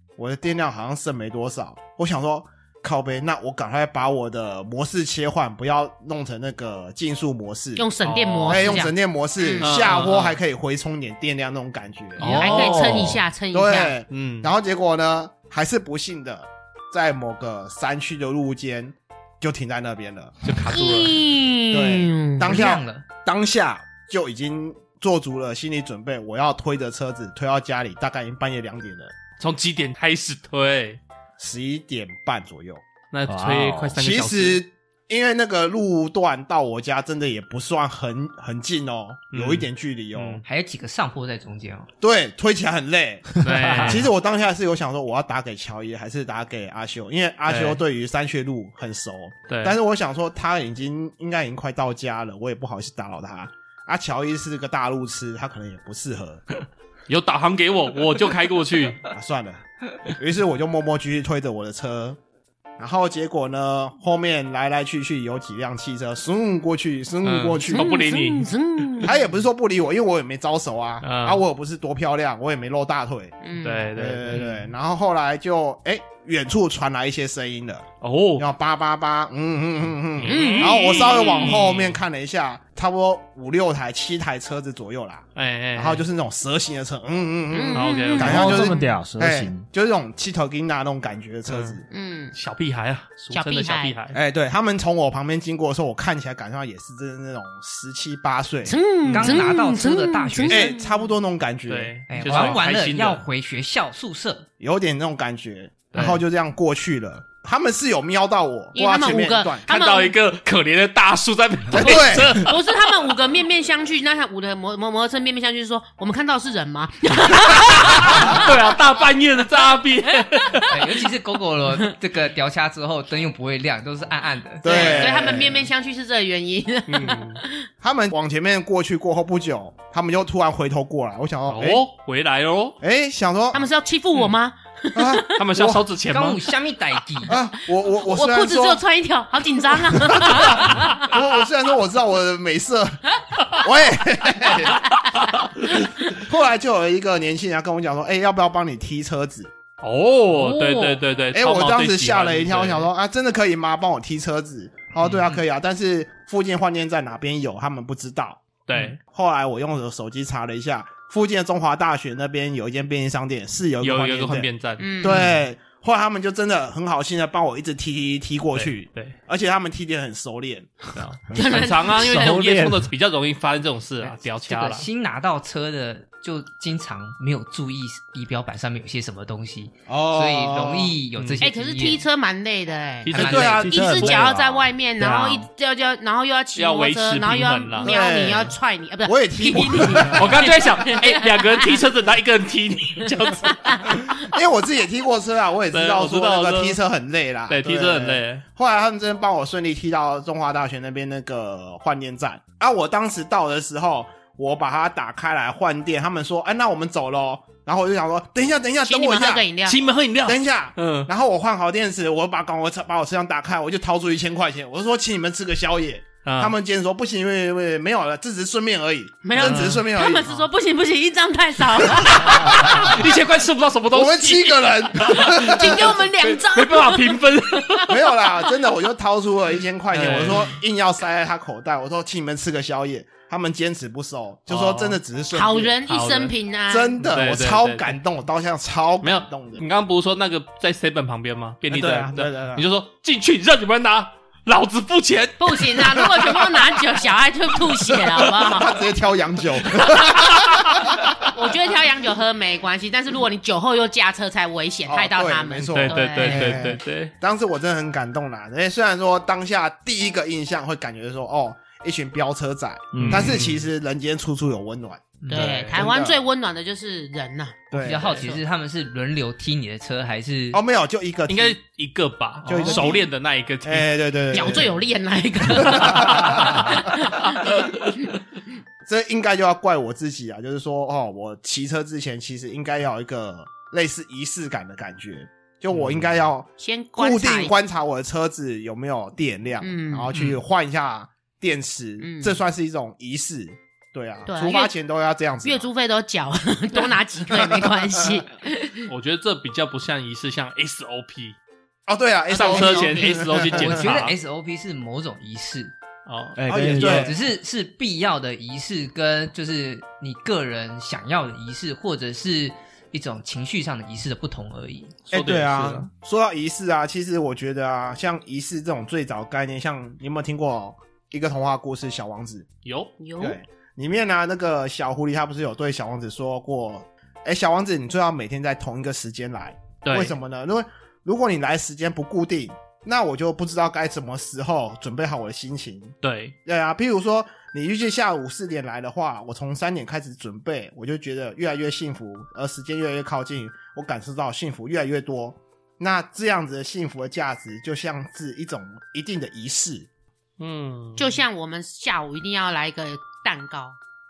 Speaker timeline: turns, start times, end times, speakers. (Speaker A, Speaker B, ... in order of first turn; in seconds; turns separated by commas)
Speaker A: 0.2-7.9, Speaker B: 7.8-9.7, Speaker C: 8.0-8.9, Speaker A: 8.4-20.4, Speaker C: 9.6-10.4, Speaker C: 12.2-13.2, Speaker B: 12.2-13.9, Speaker D: 12.5-13.1, Speaker C: 14.1-14.5, Speaker C: 20.4-21.2, Speaker B: 20.7-22.6, Speaker A: 21.7-29.1, Speaker E: 22.4-23.0, Speaker C: 29.4-31.0, Speaker A: 31.4-32.8, Speaker C: 33.1-34.6, Speaker D: 33.2-34.0, Speaker A: 33.9-40.4, Speaker C: 39.3-40.4, Speaker E: 40.4-41.9, Speaker A: 42.0-56.4, Speaker C: 43.4-44.1, Speaker D: 43.6-44.0, Speaker C: 47.5-47.8, Speaker C: 49.5-49.8, Speaker C: 57.1-59.0, Speaker A: 59.1-62.2, Speaker A: 62.8-67.9, Speaker C: 67.2-68.5, Speaker B: 67.7-69.1, Speaker A: 69.0-91.8, Speaker C: 71.0-71.4, Speaker B: 73.4-73.9, Speaker C: 73.6-74.7, Speaker C: 78.0-78.5, Speaker C: 80.2-82.0, Speaker B: 80.2-81.5, Speaker C: 85.3-86.0, Speaker B: 87.5-88.9, Speaker C: 87.7-88.6, Speaker D: 88.2-89.6, Speaker C: 91.5-91.8, Speaker B: 91.9-92.3, Speaker C: 92.3-94.2, Speaker B: 93.3-93.9, Speaker A: 94.1-98.8, Speaker B: 98.7-101.1, Speaker C: 99.1-99.4, Speaker E: 99.1-100.7, Speaker A: 100.5-102.6, Speaker C: 101.7-103.2, Speaker E: 102.1-104.5, Speaker A: 104.6-109.7, Speaker C: 105.9-106.2, Speaker B: 108.7-110.2, Speaker C: 109.7-113.1, Speaker A: 111.7-112.5, Speaker B: 111.8-118.6, Speaker C: 117.5-120.7, Speaker B: 120.2-120.7, Speaker E: 120.7-125.2, Speaker A: 124.6-125.7, Speaker B: 124.6-127.5, Speaker C: 124.8-125.1, Speaker C: 126.9-127.4, Speaker A: 127.8-131.8, Speaker C: 131.5-132.8, Speaker A: 132.8-133.7, Speaker B: 133.5-135.4, Speaker A: 134.9-135.8, Speaker C: 135.3-136.4, Speaker E: 136.1-137.3, Speaker A: 137.3-138.8, Speaker B: 138.0-141.1, Speaker A: 139.9-144.8, Speaker C: 145.1-145.4, Speaker A: 145.6-149.5, Speaker C: 149.8-152.9, Speaker E: 150.5-151.0, Speaker A: 151.3-164.5, Speaker C: 158.7-159.0, Speaker C: 163.8-165.1, Speaker B: 164.8-165.3, Speaker A: 165.0-170.9, Speaker C: 168.5-169.1, Speaker C: 170.9-174.8, Speaker B: 171.3-172.4, Speaker D: 171.5-172.9, Speaker E: 174.1-182.0, Speaker A: 179.9-180.9, Speaker C: 181.2-181.4, Speaker B: 181.4-191.8, Speaker C: 183.0-184.3, Speaker E: 183.1-183.7, Speaker D: 183.2-185.4, Speaker C: 186.5-187.9, Speaker A: 187.8-190.6, Speaker C: 190.1-194.0, Speaker B: 193.4-194.2, Speaker A: 194.1-209.4, Speaker C: 195.7-196.8, Speaker C: 197.5-198.4, Speaker B: 208.8-209.8, Speaker C: 209.7-211.1, Speaker A: 210.2-220.3, Speaker C: 216.2-216.5, Speaker B: 219.2-223.0, Speaker C: 219.3-220.5, Speaker A: 222.0-223.0, Speaker C: 222.1-227.9, Speaker A: 223.9-226.0, Speaker B: 225.3-228.3, Speaker A: 227.9-235.8, Speaker C: 229.9-230.6, Speaker C: 234.5-235.0, Speaker B: 235.3-237.1, Speaker C: 235.8-236.3, Speaker A: 236.7-239.6, Speaker C: 237.0-237.9, Speaker C: 239.0-246.7, Speaker A: 241.7-242.6, Speaker B: 245.4-248.8, Speaker A: 248.4-251.3, Speaker C: 249.8-250.9, Speaker B: 251.2-256.7, Speaker A: 254.9-266.2, Speaker C: 255.7-257.1, Speaker D: 262.9-263.4, Speaker C: 262.9-263.6, Speaker E: 265.2-265.5, Speaker B: 265.3-267.7, Speaker C: 265.3-265.9, Speaker A: 267.7-268.2, Speaker E: 267.8-270.6, Speaker C: 267.9-268.4, Speaker A: 270.5-271.6, Speaker C: 271.3-273.9, Speaker A: 272.5-273.1, Speaker A: 273.6-274.7, Speaker B: 274.3-277.6, Speaker A: 275.5-276.9, Speaker A: 278.8-295.7, Speaker B: 286.6-287.5, Speaker B: 289.6-290.1, Speaker C: 290.1-290.4, Speaker B: 292.0-292.4, Speaker B: 294.3-294.7, Speaker B: 295.4-298.9, Speaker A: 297.3-298.2, Speaker C: 298.9-301.4, Speaker A: 301.9-304.0, Speaker C: 302.3-304.1, Speaker E: 303.5-305.7, Speaker C: 306.1-306.4, Speaker D: 306.4-307.1, Speaker A: 306.5-307.2, Speaker E: 306.7-314.9, Speaker C: 315.1-315.9, Speaker A: 315.1-322.4, Speaker C: 322.6-322.9, Speaker B: 323.0-323.4, Speaker A: 323.2-349.9, Speaker C: 329.8-330.1, Speaker C: 336.0-336.3, Speaker C: 350.4-351.2, Speaker B: 351.0-353.8